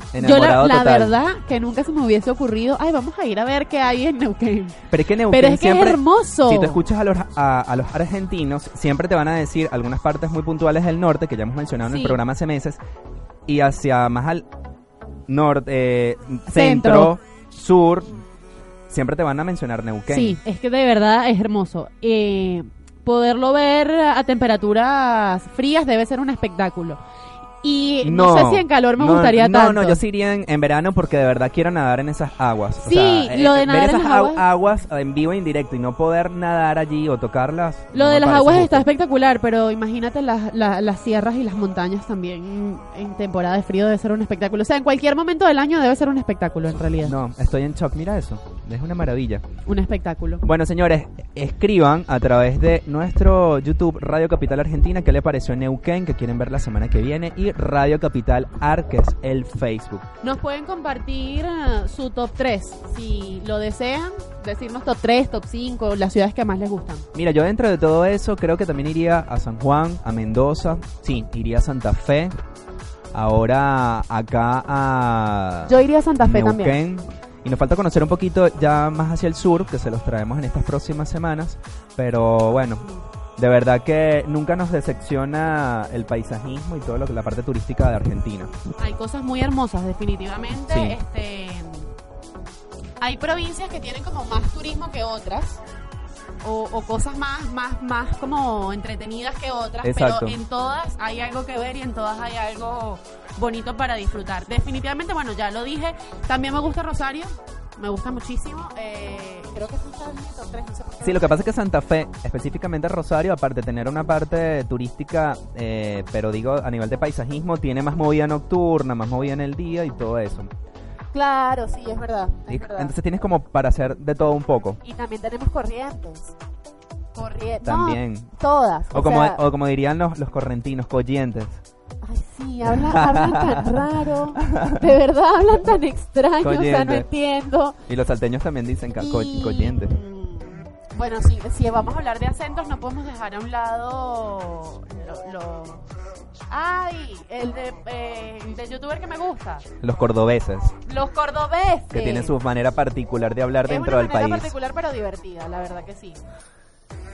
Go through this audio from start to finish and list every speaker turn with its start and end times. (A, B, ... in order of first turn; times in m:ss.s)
0:00.1-0:01.1 A
0:00.2-0:04.8 B
0:04.9-0:12.8 A
0:05.3-0:06.8 B
0:11.9-0:12.2 B
0:13.5-0:14.5 A
0:15.3-0:18.2 A
0:16.5-0:17.1 B
0:18.9-0:20.4 A
0:20.1-0:27.0 B
0:27.6-0:30.0 B
0:28.0-0:38.9 A
0:32.8-0:34.4 B
0:37.9-0:47.2 B
0:47.0-0:49.4 A
0:49.7-0:50.4 B
0:50.4-1:00.1 A
1:00.2-1:07.0 B
1:07.1-1:12.3 A
1:13.1-1:22.8 A
1:15.7-1:16.7 B
1:23.4-1:28.5 A
1:28.8-1:31.9 B
1:30.7-1:31.0 A
1:33.0-1:35.6 B
1:36.4-1:51.3 B
1:39.8-1:40.4 A
1:51.0-2:00.5 A
2:01.1-2:02.9 B
2:02.5-2:04.8 A
2:04.8-2:06.4 B
2:07.2-2:09.4 B
2:07.6-2:08.3 A
2:08.9-2:11.6 A
2:12.0-2:17.8 B
2:12.6-2:13.8 A
2:14.4-2:14.9 A
2:16.4-2:17.1 A
2:17.9-2:20.0 A
2:19.0-2:25.8 B
2:26.5-2:29.6 B
2:29.8-2:30.8 A
2:30.9-2:32.3 B
2:31.9-2:34.5 A
2:33.7-2:36.2 B